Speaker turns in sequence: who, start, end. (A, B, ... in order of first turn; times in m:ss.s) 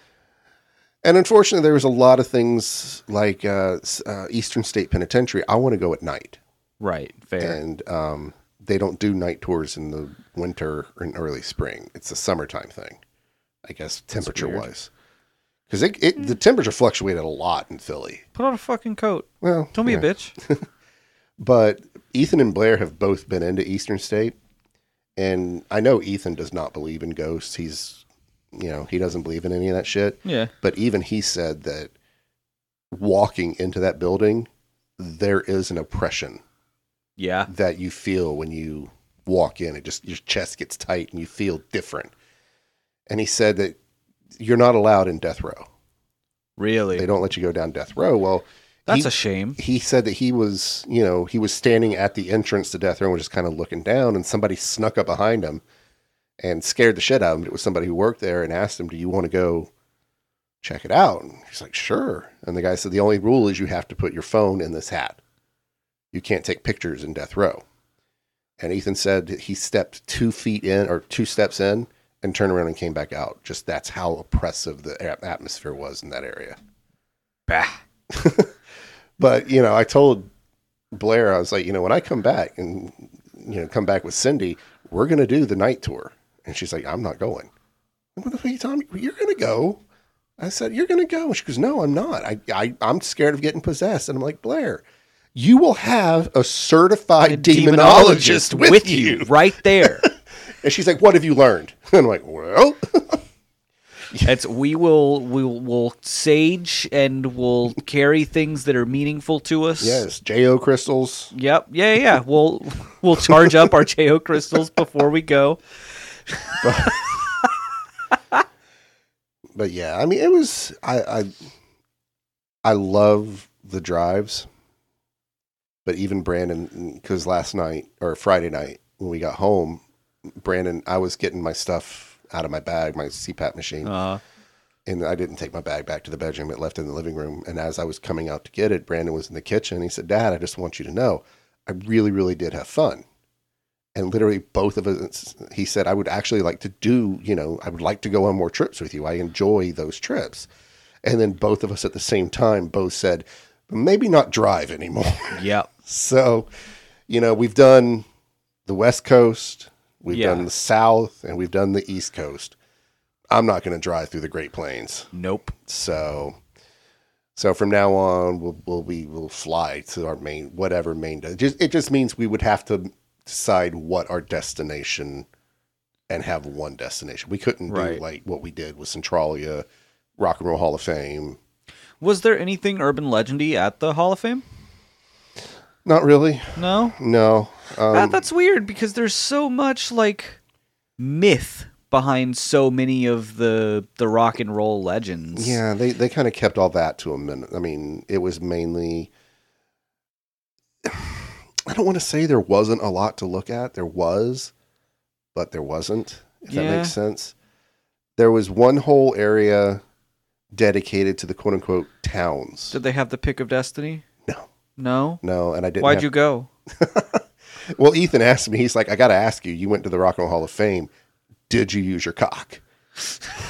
0:01.0-0:06.4 A
0:06.8-0:07.6 B
0:07.4-0:13.0 A
0:13.6-0:14.9 A
0:14.2-0:14.7 B
0:15.7-0:18.2 A
0:18.4-0:20.4 B
0:19.4-0:20.6 A
0:21.4-0:24.4 A
0:25.2-0:28.0 A
0:28.5-0:31.9 A
0:30.2-0:30.5 B
0:32.9-0:36.4 A
0:37.2-0:37.5 B
0:37.5-0:42.1 A
0:43.1-0:43.8 A
0:44.4-0:45.7 A
0:46.6-0:47.1 B
0:47.0-0:55.6 A
0:48.9-0:49.6 B
0:56.4-0:59.7 A
1:00.6-1:05.2 A
1:06.1-1:07.6 A
1:08.6-1:16.6 A
1:17.5-1:17.8 B
1:18.1-1:18.5 A
1:19.2-1:20.3 A
1:20.9-1:27.5 A
1:28.2-1:29.8 A
1:30.4-1:34.8 A
1:35.4-1:43.2 A
1:37.2-1:40.1 B
1:44.2-1:50.0 B
1:49.8-1:51.3 A
1:51.3-1:55.6 B
1:53.2-1:53.5 A
1:56.3-1:57.5 B
1:56.6-1:57.1 A
1:59.6-2:01.3 A
2:02.6-2:04.5 A
2:05.8-2:09.8 A
2:10.4-2:13.9 A
2:13.8-2:14.2 B
2:14.9-2:23.0 A
2:24.0-2:30.5 A
2:31.0-2:36.5 A
2:35.3-2:35.7 B
2:37.1-2:38.0 A
2:38.6-2:42.6 A
2:40.1-2:40.5 B
2:43.3-2:45.1 A
2:45.1-2:45.6 B
2:45.7-2:46.4 A
2:47.4-2:55.3 A
2:56.1-2:59.6 A
2:57.7-2:58.0 B
3:00.2-3:01.4 A
3:02.0-3:04.4 B
3:05.8-3:08.2 A
3:06.6-3:07.0 B
3:07.9-3:10.4 B
3:11.0-3:15.6 B
3:15.4-3:19.1 A
3:20.8-3:24.5 A
3:25.3-3:27.3 A
3:26.5-3:27.0 B
3:28.2-3:29.8 A
3:30.5-3:32.8 A
3:32.7-3:34.0 B
3:34.8-3:35.2 B
3:35.2-3:36.1 A
3:35.8-3:36.5 B
3:36.7-3:40.9 A
3:41.5-3:42.6 A